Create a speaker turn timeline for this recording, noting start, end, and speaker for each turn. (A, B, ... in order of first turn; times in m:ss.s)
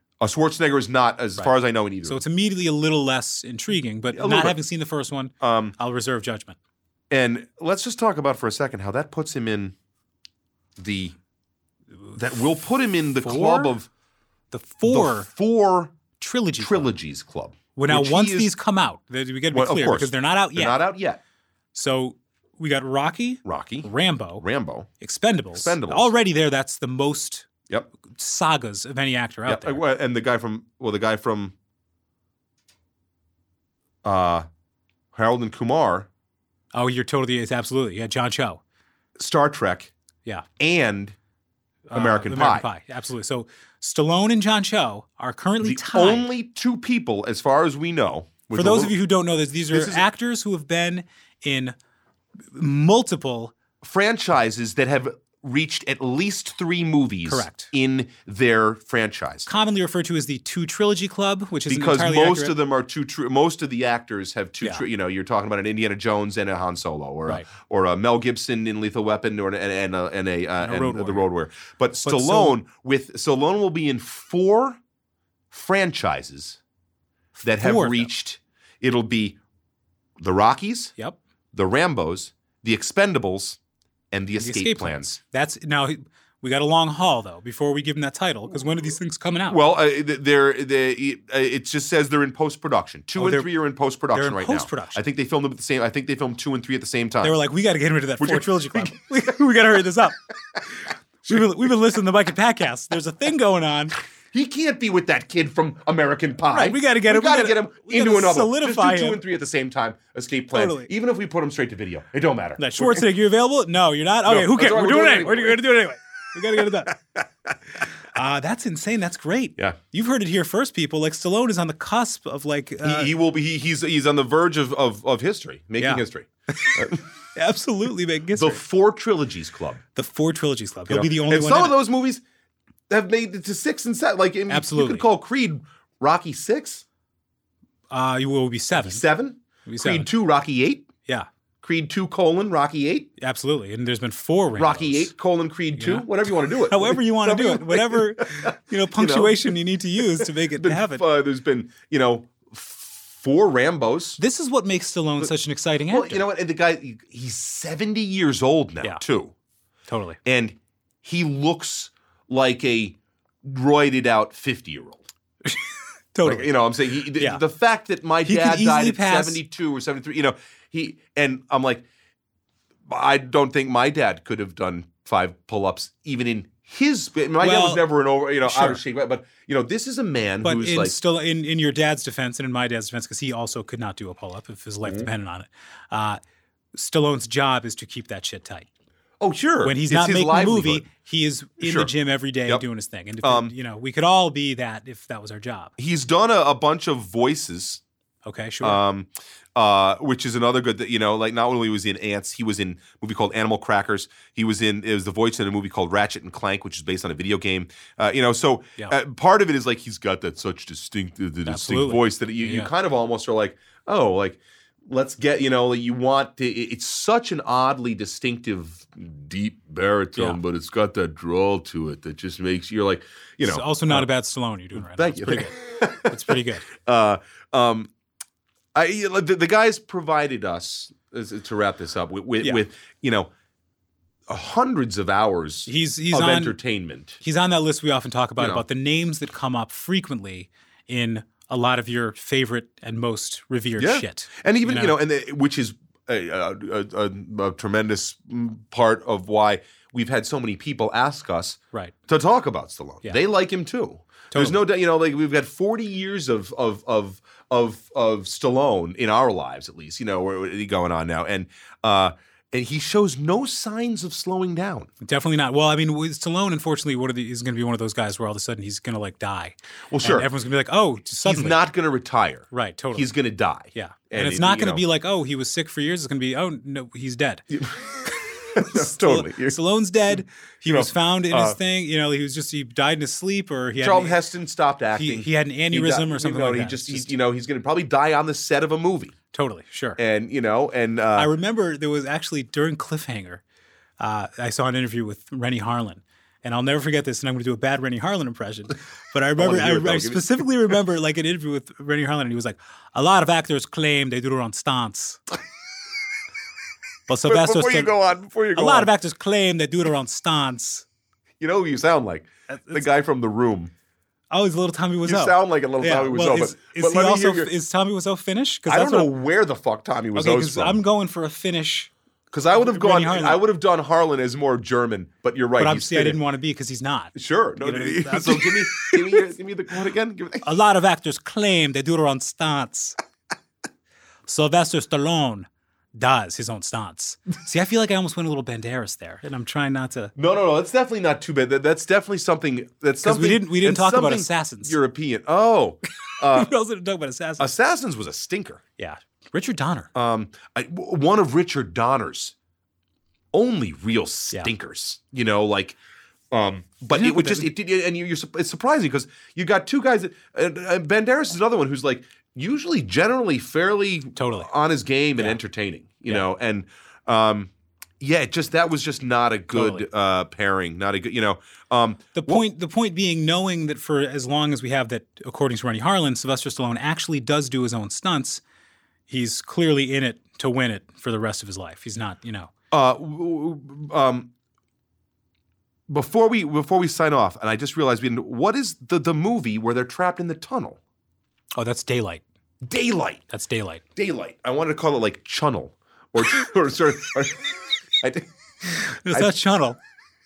0:00.2-0:02.2 A
0:02.0-0:06.6 B
0:04.1-0:04.6 A
0:05.4-0:05.7 A
0:07.1-0:09.7 A
0:10.8-0:11.2 A
0:12.2-0:13.9 A
0:13.2-0:13.7 B
0:14.5-0:15.3 B
0:14.8-0:15.9 A
0:16.2-0:16.9 B
0:16.6-0:18.5 A
0:17.7-0:20.8 B
0:19.5-0:21.2 A
0:21.7-0:24.4 B
0:23.4-0:24.9 A
0:25.0-0:29.8 B
0:25.6-0:26.1 A
0:29.4-0:31.5 A
0:34.0-0:34.5 A
0:35.1-0:36.1 A
0:36.7-0:38.6 B
0:39.2-0:39.9 A
0:40.6-0:41.2 A
0:41.9-0:46.3 B
0:41.9-0:42.7 A
0:45.6-0:48.9 A
0:48.5-0:51.7 B
0:49.7-0:50.1 A
0:52.5-0:53.5 B
0:53.8-0:59.5 A
0:57.2-0:57.7 B
0:59.4-1:02.5 B
1:01.6-1:14.8 A
1:10.6-1:11.3 B
1:12.0-1:12.6 B
1:15.5-1:16.6 A
1:17.4-1:19.4 A
1:17.6-1:18.1 B
1:20.2-1:20.9 A
1:21.5-1:23.6 A
1:24.1-1:25.1 A
1:24.4-1:29.6 B
1:29.5-1:37.4 A
1:33.2-1:33.5 B
1:34.1-1:35.0 B
1:37.2-1:40.2 B
1:38.2-1:39.0 A
1:41.2-1:44.0 B
1:44.3-1:53.1 A
1:46.5-1:49.2 B
1:50.5-1:50.9 B
1:52.6-1:57.0 B
1:54.2-1:55.6 A
1:56.6-1:57.2 A
1:58.0-2:03.1 B
2:02.8-2:07.0 A
2:06.6-2:08.6 B
2:08.3-2:09.8 A
2:09.9-2:11.8 B
2:10.9-2:12.2 A
2:12.9-2:16.8 A
2:14.5-2:15.0 B
2:17.9-2:19.0 B
2:18.7-2:20.9 A
2:19.6-2:20.1 B
2:21.6-2:23.1 A
2:23.2-2:25.1 B
2:24.6-2:29.6 A
2:25.8-2:31.0 B
2:30.2-2:34.2 A
2:34.2-2:36.2 B
2:35.9-2:39.3 A
2:39.9-2:40.2 B
2:40.2-2:45.0 A
2:45.4-2:47.4 B
2:46.2-2:51.8 A
2:48.2-2:49.4 B
2:52.9-3:01.0 A
2:57.4-2:57.8 B
2:58.4-2:58.8 B
3:00.4-3:06.2 B
3:04.8-3:05.1 A
3:06.7-3:08.7 B
3:09.2-3:10.9 A
3:09.6-3:15.7 B
3:11.6-3:11.9 A
3:13.2-3:13.5 A
3:15.8-3:17.8 A
3:18.2-3:18.8 B
3:18.6-3:44.1 A
3:31.4-3:32.7 B
3:43.4-3:46.6 B
3:44.7-3:47.9 A
3:48.7-3:53.3 A
3:54.3-3:57.2 A
3:55.7-3:56.6 B
3:57.2-4:05.0 B
3:58.4-3:58.6 A
4:03.8-4:24.9 A
4:14.3-4:14.6 B
4:25.0-4:31.6 B
4:29.9-4:30.3 A
4:31.2-4:34.8 A
4:32.5-4:33.1 B
4:33.7-4:37.5 B
4:37.5-4:39.6 A
4:38.5-4:44.2 B
4:40.6-4:41.6 A
4:43.8-4:49.1 A
4:44.9-4:47.1 B
4:49.3-4:50.0 B
4:50.0-4:51.3 A
4:51.2-4:53.4 B
4:54.0-5:05.2 B
4:59.4-5:00.4 A
5:07.1-5:07.9 B
5:07.2-5:08.9 A
5:08.5-5:10.8 B
5:11.4-5:13.7 A
5:12.5-5:12.9 B
5:14.3-5:19.1 B
5:15.0-5:17.5 A
5:18.7-5:20.8 A
5:20.1-5:21.9 B
5:22.3-5:26.2 A
5:22.5-5:23.4 B
5:25.6-5:29.2 B
5:27.1-5:30.5 A
5:30.4-5:33.0 B
5:34.2-5:40.1 B
5:40.2-5:46.5 A
5:43.0-5:44.8 B
5:46.3-5:47.5 B
5:47.4-5:48.6 A
5:48.8-5:49.9 B
5:49.9-5:52.3 A
5:53.3-5:55.8 A
5:56.3-6:12.4 A
5:56.9-5:57.5 B
6:04.2-6:04.5 B
6:09.5-6:09.9 B
6:12.1-6:18.4 B
6:19.1-6:22.5 B
6:22.7-6:24.3 A
6:25.9-6:30.8 A
6:31.5-6:32.2 B
6:32.6-6:33.2 A
6:33.3-6:33.8 B
6:34.0-6:38.3 A
6:38.7-6:39.8 B
6:38.9-6:39.3 A